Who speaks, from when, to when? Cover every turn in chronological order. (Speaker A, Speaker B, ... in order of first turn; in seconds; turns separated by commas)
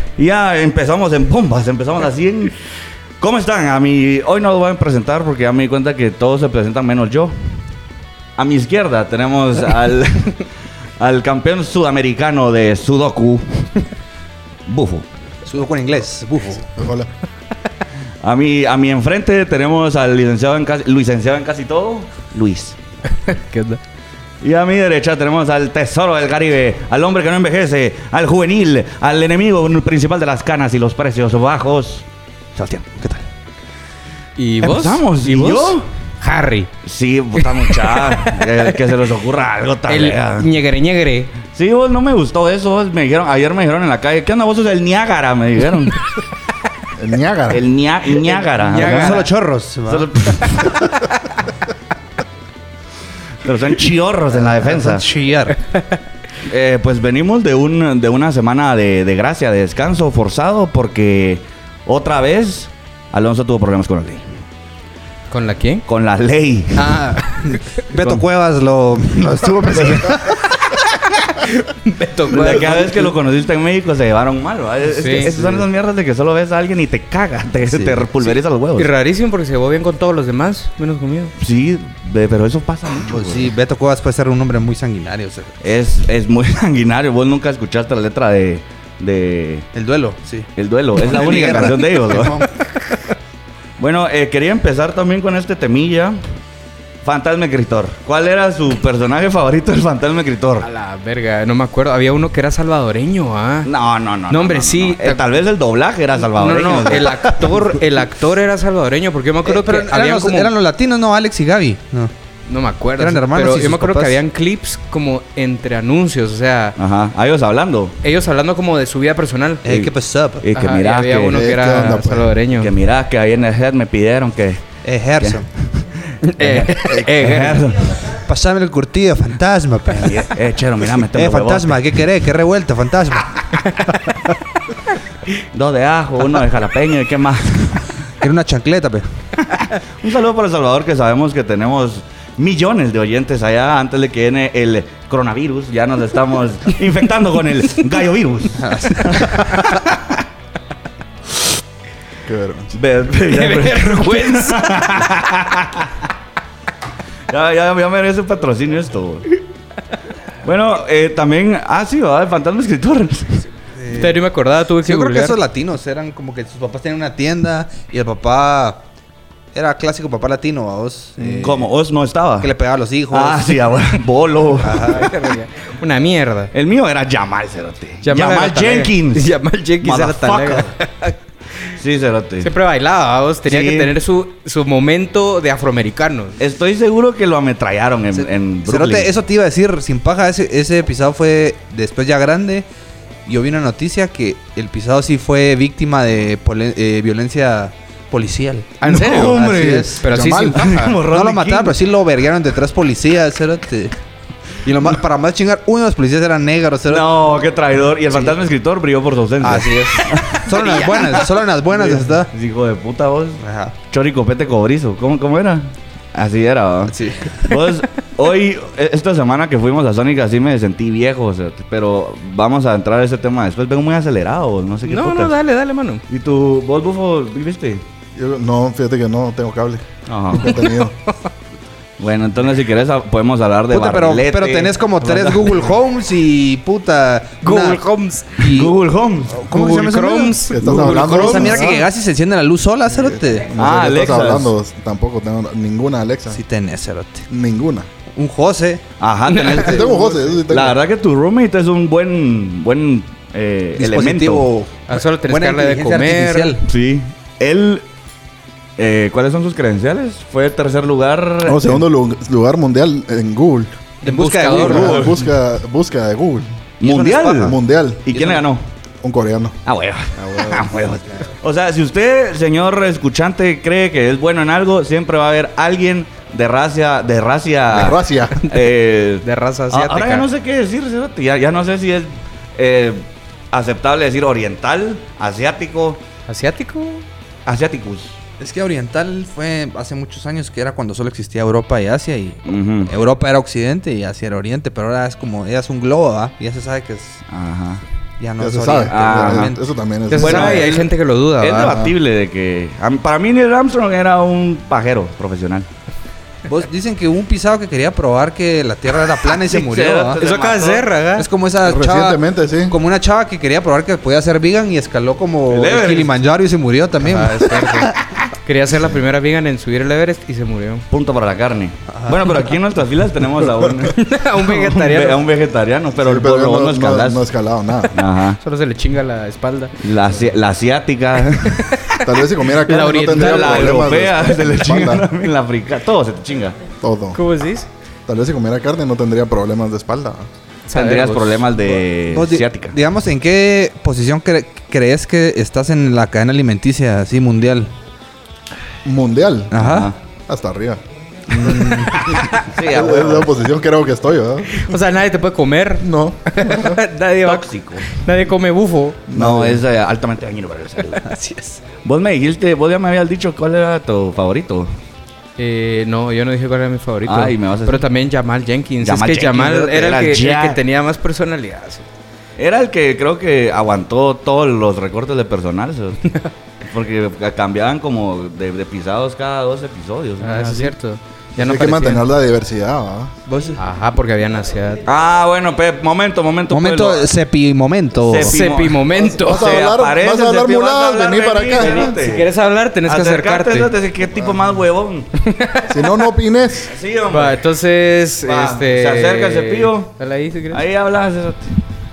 Speaker A: 0.2-2.6, Speaker A: 3.2-7.4, Speaker A: 8.4-10.5, Speaker A: 11.0-13.7, Speaker A: 14.7-15.1, Speaker B: 15.4-16.7, Speaker C: 16.8-17.1, Speaker A: 18.2-22.8, Speaker D: 23.2-23.8, Speaker A: 24.4-32.1, Speaker A: 32.6-32.9, Speaker B: 32.8-33.2, Speaker D: 34.4-36.7, Speaker A: 34.6-35.9, Speaker A: 36.9-40.5, Speaker D: 37.4-38.4, Speaker D: 39.9-41.3, Speaker A: 41.5-46.0, Speaker C: 47.0-47.6, Speaker A: 47.5-49.3, Speaker D: 48.6-49.3, Speaker B: 48.6-50.5, Speaker A: 49.9-50.9, Speaker A: 53.4-55.0, Speaker B: 54.3-55.6, Speaker A: 56.5-64.2, Speaker D: 65.3-65.8, Speaker A: 65.9-67.0, Speaker D: 66.8-67.8, Speaker B: 67.2-70.5, Speaker A: 69.7-70.3, Speaker D: 71.8-73.1, Speaker A: 72.3-78.9, Speaker B: 72.4-73.0, Speaker D: 74.9-75.3, Speaker B: 75.2-75.7, Speaker B: 77.7-78.0, Speaker D: 78.2-81.3, Speaker A: 81.4-83.5, Speaker B: 83.0-85.6, Speaker A: 85.6-89.7, Speaker B: 89.7-92.5, Speaker A: 90.6-92.5, Speaker A: 93.8-96.2, Speaker A: 97.0-100.7, Speaker D: 100.6-103.7, Speaker A: 103.7-107.7, Speaker D: 104.3-105.3, Speaker D: 106.3-110.5, Speaker B: 109.5-112.1, Speaker D: 112.5-116.8, Speaker B: 113.0-114.2, Speaker A: 116.8-118.0, Speaker D: 118.0-119.7, Speaker B: 119.6-120.5, Speaker A: 119.7-122.0, Speaker D: 120.5-122.7, Speaker C: 121.3-122.3, Speaker A: 122.6-124.7, Speaker B: 124.8-125.5, Speaker A: 125.2-128.1, Speaker D: 126.2-127.7, Speaker B: 128.1-130.3, Speaker A: 130.0-131.9, Speaker B: 131.0-133.3, Speaker A: 135.5-137.9, Speaker B: 138.2-139.2, Speaker A: 139.5-150.2, Speaker B: 148.6-149.6, Speaker C: 152.3-152.8, Speaker A: 152.7-155.9, Speaker D: 153.3-154.9, Speaker A: 157.3-159.4, Speaker A: 160.4-163.5, Speaker B: 163.8-164.2, Speaker D: 163.9-165.4, Speaker B: 164.8-168.8, Speaker B: 169.5-171.7, Speaker A: 171.3-172.5, Speaker B: 172.4-173.6, Speaker A: 173.1-175.0, Speaker B: 174.6-175.1, Speaker D: 174.9-176.5, Speaker A: 176.5-179.3, Speaker D: 178.0-181.2, Speaker A: 179.8-180.7, Speaker A: 181.8-182.5, Speaker D: 182.4-186.4, Speaker A: 183.5-183.9, Speaker A: 186.4-189.1, Speaker B: 188.1-192.7, Speaker B: 193.3-200.1, Speaker D: 198.8-199.5, Speaker A: 198.9-201.8, Speaker D: 200.0-201.0, Speaker C: 200.1-200.6, Speaker B: 201.1-203.9, Speaker B: 204.6-207.1, Speaker A: 206.9-225.3, Speaker B: 209.4-212.3, Speaker B: 213.4-213.8, Speaker B: 216.9-217.6, Speaker D: 224.9-226.0, Speaker A: 226.1-227.8, Speaker C: 228.2-231.0, Speaker A: 230.1-230.6, Speaker A: 232.0-235.6, Speaker B: 233.7-237.8, Speaker D: 237.4-238.4, Speaker B: 238.4-238.8, Speaker A: 238.4-239.4, Speaker B: 239.3-243.5, Speaker D: 239.5-241.8, Speaker C: 240.5-241.7, Speaker C: 242.9-246.4, Speaker A: 243.6-244.5, Speaker B: 246.3-247.3, Speaker C: 247.3-247.9, Speaker B: 248.1-248.8, Speaker A: 249.0-250.0, Speaker D: 249.3-249.6, Speaker C: 249.6-250.8, Speaker B: 249.7-250.2, Speaker A: 250.5-254.5, Speaker B: 253.7-256.6, Speaker D: 254.9-256.6, Speaker A: 256.6-257.9, Speaker A: 258.8-261.8, Speaker C: 261.4-263.7, Speaker D: 264.0-265.3, Speaker B: 264.0-265.2, Speaker C: 264.5-266.5, Speaker A: 266.8-268.6, Speaker B: 266.8-267.6, Speaker C: 267.4-268.4, Speaker C: 269.0-269.6, Speaker A: 269.7-286.0, Speaker C: 270.2-270.7, Speaker C: 277.7-278.4, Speaker D: 279.2-280.3, Speaker D: 286.3-287.1, Speaker A: 287.5-288.2, Speaker B: 288.4-297.2, Speaker A: 292.5-292.9, Speaker A: 297.3-297.8, Speaker B: 298.2-299.6, Speaker C: 298.4-300.7, Speaker A: 298.9-299.5, Speaker D: 300.1-301.8, Speaker A: 300.1-300.9, Speaker A: 301.4-305.7, Speaker C: 301.6-301.9, Speaker B: 306.5-310.2, Speaker A: 309.4-310.9, Speaker D: 310.2-311.3, Speaker B: 311.2-317.9, Speaker C: 311.6-312.8, Speaker A: 315.5-316.1, Speaker D: 317.0-317.9, Speaker D: 318.4-320.9, Speaker A: 320.9-327.2, Speaker B: 321.9-322.2, Speaker D: 323.9-325.2, Speaker C: 326.0-328.0, Speaker A: 327.9-328.4, Speaker D: 328.4-329.7, Speaker A: 329.8-331.9, Speaker C: 332.0-335.1, Speaker D: 332.6-333.6, Speaker A: 333.1-336.6, Speaker C: 336.8-337.2, Speaker D: 337.1-337.7, Speaker C: 338.1-340.3, Speaker D: 340.7-341.4, Speaker A: 340.7-342.8, Speaker B: 342.1-347.7, Speaker C: 348.8-349.8, Speaker B: 349.5-349.9, Speaker A: 349.6-349.9, Speaker C: 350.3-354.7, Speaker B: 351.3-351.9, Speaker A: 352.4-353.3, Speaker D: 354.6-359.0, Speaker C: 355.8-356.8, Speaker A: 357.2-358.0, Speaker C: 359.1-359.6, Speaker A: 359.1-361.1, Speaker B: 361.0-361.6, Speaker A: 361.8-364.7, Speaker D: 365.4-371.8, Speaker A: 367.1-367.9, Speaker A: 368.8-370.6, Speaker A: 372.4-380.7, Speaker D: 380.2-382.1, Speaker C: 381.4-383.1, Speaker B: 383.3-383.6, Speaker D: 383.6-384.9, Speaker A: 384.9-387.1, Speaker B: 386.5-388.4, Speaker A: 388.0-392.3, Speaker D: 388.3-389.6, Speaker C: 389.1-391.9, Speaker D: 391.6-393.7, Speaker A: 392.9-395.1, Speaker D: 395.2-395.9, Speaker C: 395.7-396.7, Speaker A: 396.7-397.4, Speaker D: 397.1-400.6, Speaker A: 398.2-399.9, Speaker A: 400.5-401.6